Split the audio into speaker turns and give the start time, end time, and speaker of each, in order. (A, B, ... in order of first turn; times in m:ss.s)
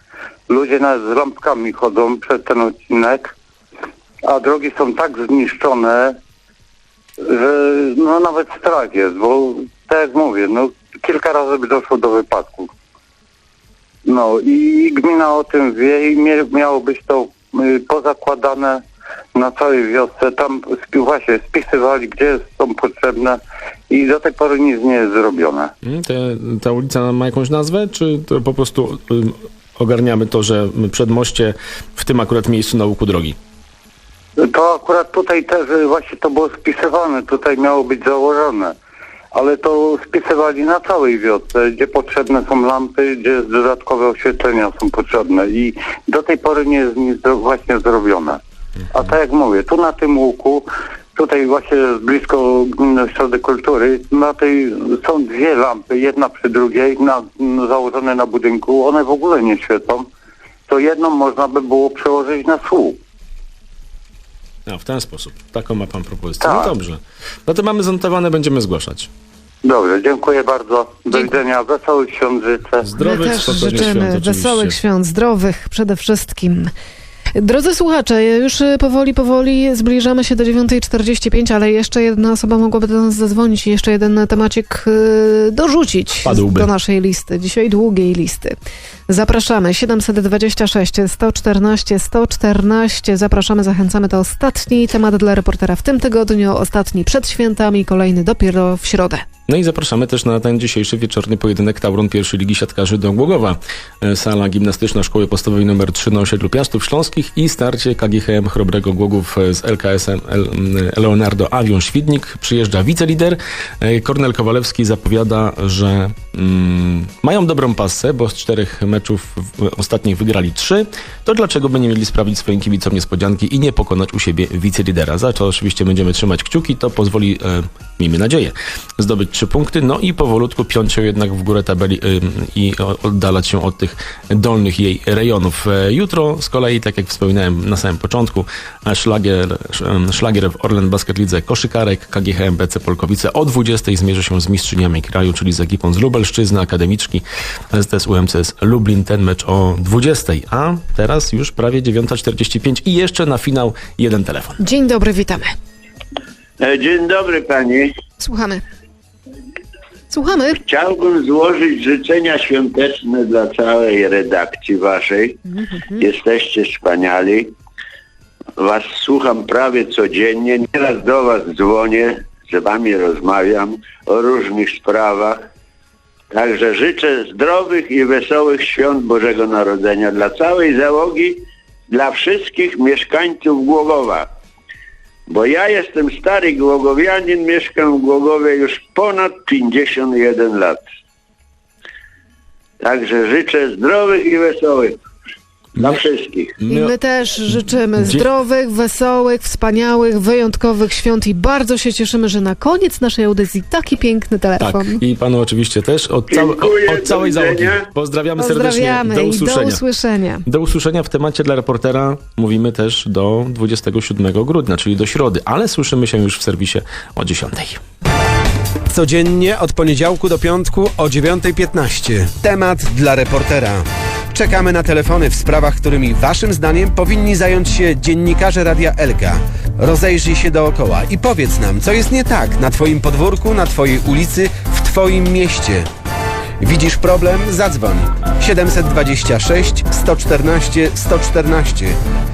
0:00.5-0:03.4 A
0:04.2-0:06.2 A
0:07.2-0:12.7 A
0:14.1-0:18.8 A
0:19.4-0:25.7 A
0:25.8-0:33.4 B
0:34.4-0:38.7 A
0:39.3-0:48.4 A
0:48.9-1:00.1 A
1:00.7-1:03.0 A
1:04.6-1:09.1 B
1:06.4-1:06.7 A
1:09.6-1:12.9 A
1:12.8-1:14.8 B
1:13.0-1:16.7 C
1:17.4-1:28.5 C
1:26.2-1:26.7 B
1:29.1-1:39.2 C
1:39.5-2:34.6 B
2:34.6-2:35.5 C
2:36.6-2:37.9 D
2:38.2-2:38.6 C
2:40.1-2:40.6 C
2:40.6-2:45.4 D
2:45.6-2:46.0 C
2:46.0-2:47.6 D
2:48.6-2:55.4 D
2:56.3-3:04.3 D
3:05.3-3:10.8 D
3:12.8-3:15.0 D
3:15.8-3:16.6 D
3:16.6-3:16.9 B
3:16.7-3:25.0 C
3:18.0-3:18.3 B
3:24.6-3:29.8 B
3:26.3-3:27.9 D
3:28.4-3:30.4 C
3:30.4-3:37.8 B
3:38.9-3:55.9 E
3:56.6-4:02.0 E